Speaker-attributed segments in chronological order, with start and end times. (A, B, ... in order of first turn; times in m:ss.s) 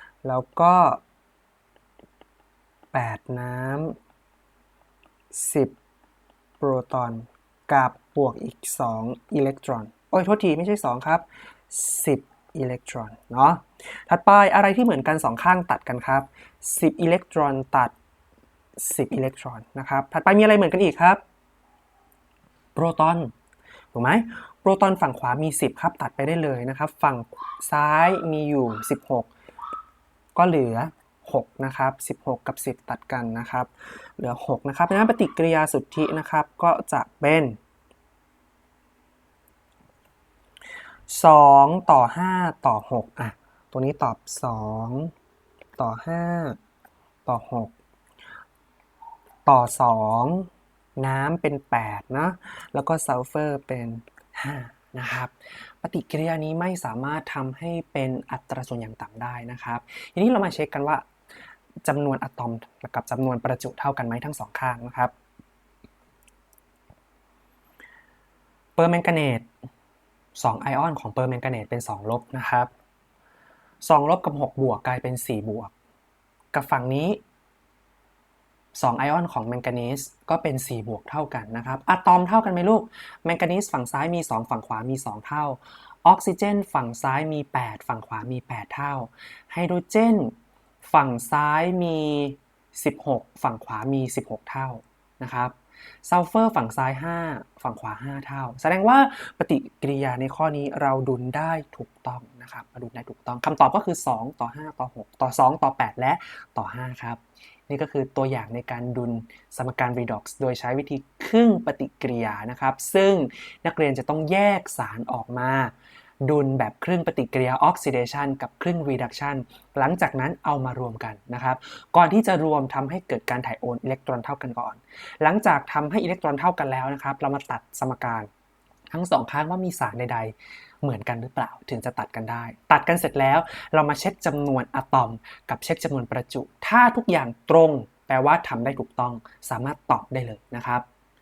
0:00.2-0:01.0 A
0:02.9-0:04.0 A
0:05.3-0:05.8 A
0:06.6-0:17.9 A
0:18.8-0:21.2 A
0:22.7-0:23.3 A
0:23.9-0:29.3 A
0:30.3-0:37.6 A
0:41.1-0:45.1 A
0:45.8-0:46.6 A
0:47.2-0:47.7 A
0:49.4-1:01.0 A
1:01.8-1:05.1 A
1:08.8-1:09.5 A
1:10.4-1:12.7 A
1:13.8-1:15.7 A
1:16.5-1:17.2 A
1:18.7-1:30.3 A
1:30.8-1:35.5 A
1:36.0-1:55.7 A
1:56.2-2:08.3 A
2:08.9-2:20.8 A